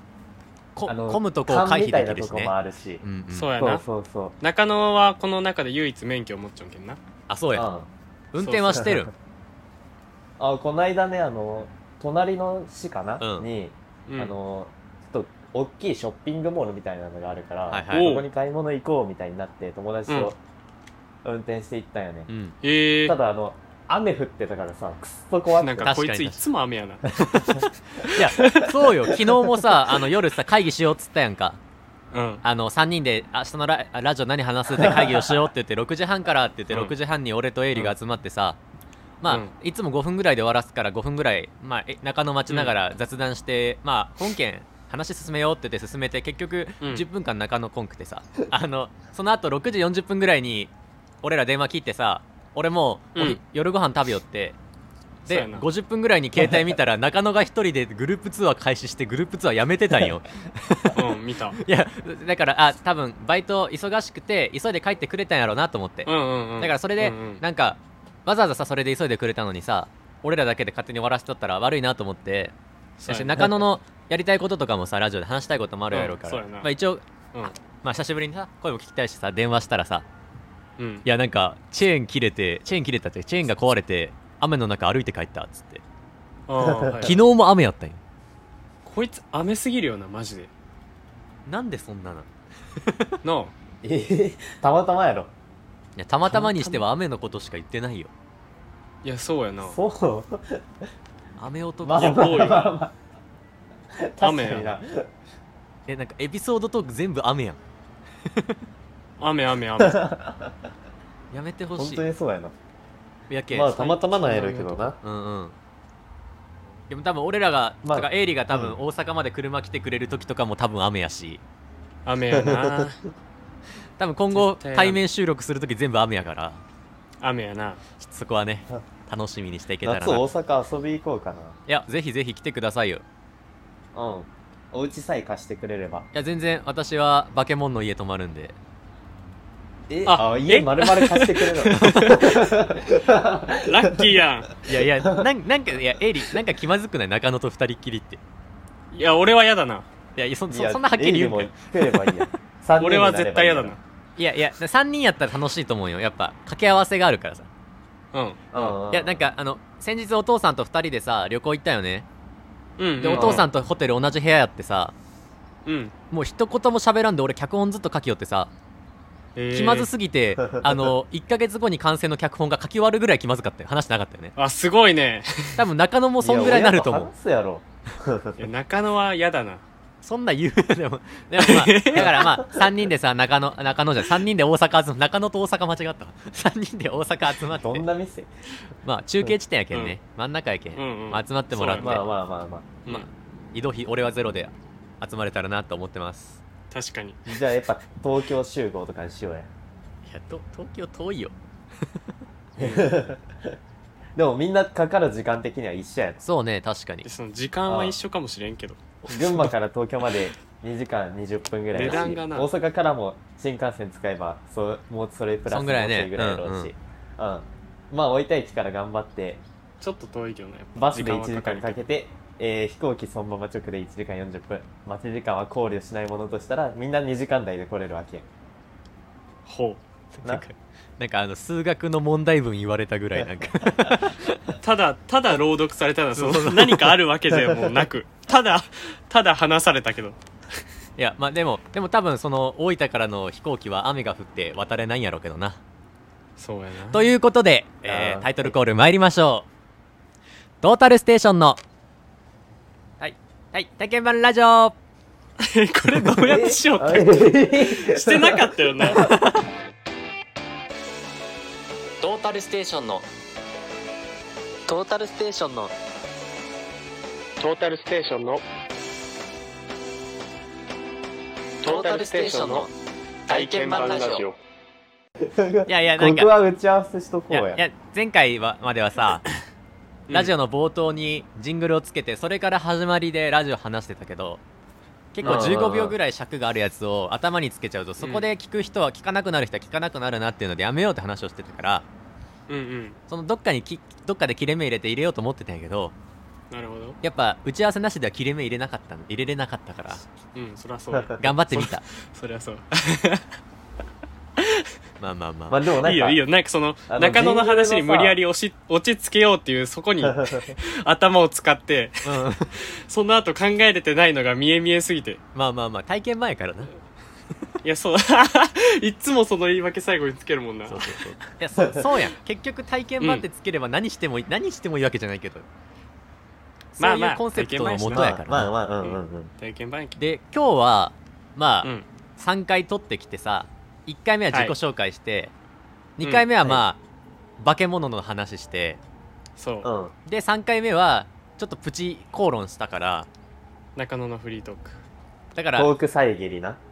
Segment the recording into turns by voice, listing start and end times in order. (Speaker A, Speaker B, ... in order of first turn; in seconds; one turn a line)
Speaker A: 0.7-3.5
Speaker B: 0.8-3.0
Speaker C: 3.3-3.8
Speaker B: 3.6-4.3
Speaker C: 4.4-7.0
Speaker A: 7.3-7.7
Speaker B: 7.5-7.9
Speaker A: 8.3-9.1
Speaker B: 8.7-9.0
Speaker B: 10.4-20.4
Speaker A: 13.2-13.5
Speaker C: 14.1-14.3
Speaker A: 17.7-18.1
Speaker C: 17.9-18.3
Speaker B: 21.2-22.3
Speaker A: 22.3-22.5
Speaker C: 22.6-23.2
Speaker B: 23.1-26.0
Speaker C: 25.5-27.1
Speaker A: 25.8-26.4
Speaker A: 27.1-31.6
Speaker C: 28.0-28.8
Speaker B: 29.1-29.4
Speaker C: 32.1-32.4
Speaker A: 32.4-38.6
Speaker B: 34.8-35.3
Speaker A: 39.2-50.7
Speaker C: 39.3-39.5
Speaker C: 42.5-42.7
Speaker A: 51.2-54.5
Speaker C: 53.1-53.4
Speaker C: 55.2-55.6
Speaker A: 55.2-61.0
Speaker C: 60.9-61.6
Speaker A: 61.5-72.5
Speaker C: 66.0-67.4
Speaker C: 73.0-73.6
Speaker A: 73.1-80.0
Speaker C: 75.9-76.7
Speaker C: 80.8-81.0
Speaker A: 81.0-85.8
Speaker C: 86.5-87.2
Speaker B: 86.6-87.2
Speaker A: 87.0-88.0
Speaker C: 88.8-90.5
Speaker A: 91.5-93.2
Speaker C: 93.2-93.5
Speaker B: 93.8-95.3
Speaker A: 96.0-98.1
Speaker B: 96.2-96.8
Speaker C: 99.0-99.8
Speaker B: 99.6-100.6
Speaker A: 101.4-102.6
Speaker B: 101.8-102.9
Speaker C: 101.9-102.7
Speaker B: 104.0-105.1
Speaker C: 104.2-104.8
Speaker A: 105.9-107.6
Speaker A: 108.3-108.6
Speaker C: 109.2-110.0
Speaker B: 109.8-110.6
Speaker A: 111.3-112.0
Speaker B: 111.8-112.5
Speaker A: 113.3-114.0
Speaker B: 113.5-115.0
Speaker C: 114.2-114.9
Speaker A: 115.0-115.5
Speaker A: 116.9-121.4
Speaker B: 117.8-118.8
Speaker C: 122.0-123.0
Speaker B: 122.3-122.9
Speaker A: 124.0-126.6
Speaker C: 124.3-125.0
Speaker C: 127.2-127.8
Speaker A: 128.0-130.2
Speaker B: 129.8-131.6
Speaker A: 131.7-133.0
Speaker B: 133.9-136.1
Speaker A: 136.1-138.6
Speaker B: 139.9-144.1
Speaker C: 140.1-142.5
Speaker A: 141.8-142.1
Speaker C: 143.6-144.6
Speaker A: 144.6-148.2
Speaker C: 148.9-149.8
Speaker A: 150.1-152.3
Speaker B: 150.5-153.8
Speaker C: 152.8-153.8
Speaker A: 154.2-157.5
Speaker C: 158.1-158.7
Speaker B: 158.5-159.2
Speaker A: 158.9-162.1
Speaker C: 162.8-163.5
Speaker A: 163.0-164.9
Speaker B: 163.1-163.4
Speaker C: 165.6-165.9
Speaker A: 166.1-168.5
Speaker C: 169.3-169.9
Speaker A: 169.5-174.3
Speaker B: 170.4-170.9
Speaker C: 174.3-175.6
Speaker A: 175.6-177.1
Speaker B: 176.2-178.4
Speaker C: 178.4-179.6
Speaker A: 180.0-187.8
Speaker C: 181.4-182.3
Speaker B: 182.0-182.6
Speaker B: 187.5-188.3
Speaker A: 188.8-192.0
Speaker C: 189.7-190.0
Speaker C: 190.7-192.0
Speaker B: 191.7-192.8
Speaker A: 192.9-196.4
Speaker C: 196.7-197.2
Speaker B: 197.3-199.5
Speaker A: 200.1-202.0
Speaker C: 202.6-202.9
Speaker B: 202.6-203.5
Speaker B: 204.2-206.2
Speaker A: 206.2-207.1
Speaker C: 207.0-208.8
Speaker B: 207.7-207.9
Speaker A: 209.1-209.5
Speaker B: 209.1-219.4
Speaker C: 211.7-212.5
Speaker A: 215.5-216.7
Speaker C: 219.8-221.8
Speaker B: 220.8-228.2
Speaker C: 229.4-229.8
Speaker A: 230.1-234.4
Speaker B: 233.2-234.0
Speaker C: 234.6-240.2
Speaker A: 236.1-236.9
Speaker B: 237.3-237.8
Speaker A: 241.0-245.6
Speaker C: 246.4-247.0
Speaker A: 246.9-249.4
Speaker B: 247.8-248.5
Speaker A: 250.6-251.6
Speaker A: 253.0-254.7
Speaker C: 255.4-259.1
Speaker B: 256.2-259.1
Speaker A: 259.0-259.4
Speaker A: 262.0-263.0
Speaker A: 264.7-265.7
Speaker D: 267.4-268.4
Speaker D: 271.6-272.7
Speaker A: 271.6-272.7
Speaker A: 273.3-274.3
Speaker D: 273.3-274.4
Speaker B: 275.2-277.6
Speaker A: 275.7-276.3
Speaker A: 277.3-279.2
Speaker C: 280.1-280.3
Speaker A: 280.1-284.4
Speaker A: 285.1-291.8
Speaker C: 285.2-285.6
Speaker B: 285.2-285.9
Speaker C: 288.0-288.2
Speaker C: 292.5-293.0
Speaker A: 293.1-295.9
Speaker C: 296.5-297.0
Speaker A: 297.0-300.0
Speaker C: 300.3-303.3
Speaker B: 300.9-301.2
Speaker A: 301.2-301.8
Speaker C: 304.4-304.7
Speaker A: 305.0-305.6
Speaker B: 305.5-306.2
Speaker C: 305.8-315.2
Speaker B: 306.9-308.2
Speaker B: 310.0-310.5
Speaker A: 312.0-312.5
Speaker A: 315.3-316.7
Speaker C: 317.6-320.9
Speaker A: 320.7-325.4
Speaker B: 321.6-321.8
Speaker A: 326.8-328.5
Speaker C: 326.8-328.1
Speaker B: 327.9-329.3
Speaker C: 328.8-330.0
Speaker A: 330.0-335.3
Speaker A: 336.0-336.8
Speaker C: 336.0-336.3
Speaker A: 337.4-338.8
Speaker C: 339.4-339.7
Speaker B: 339.6-339.9
Speaker A: 340.1-343.1
Speaker C: 343.8-344.8
Speaker A: 345.3-345.7
Speaker B: 345.6-346.6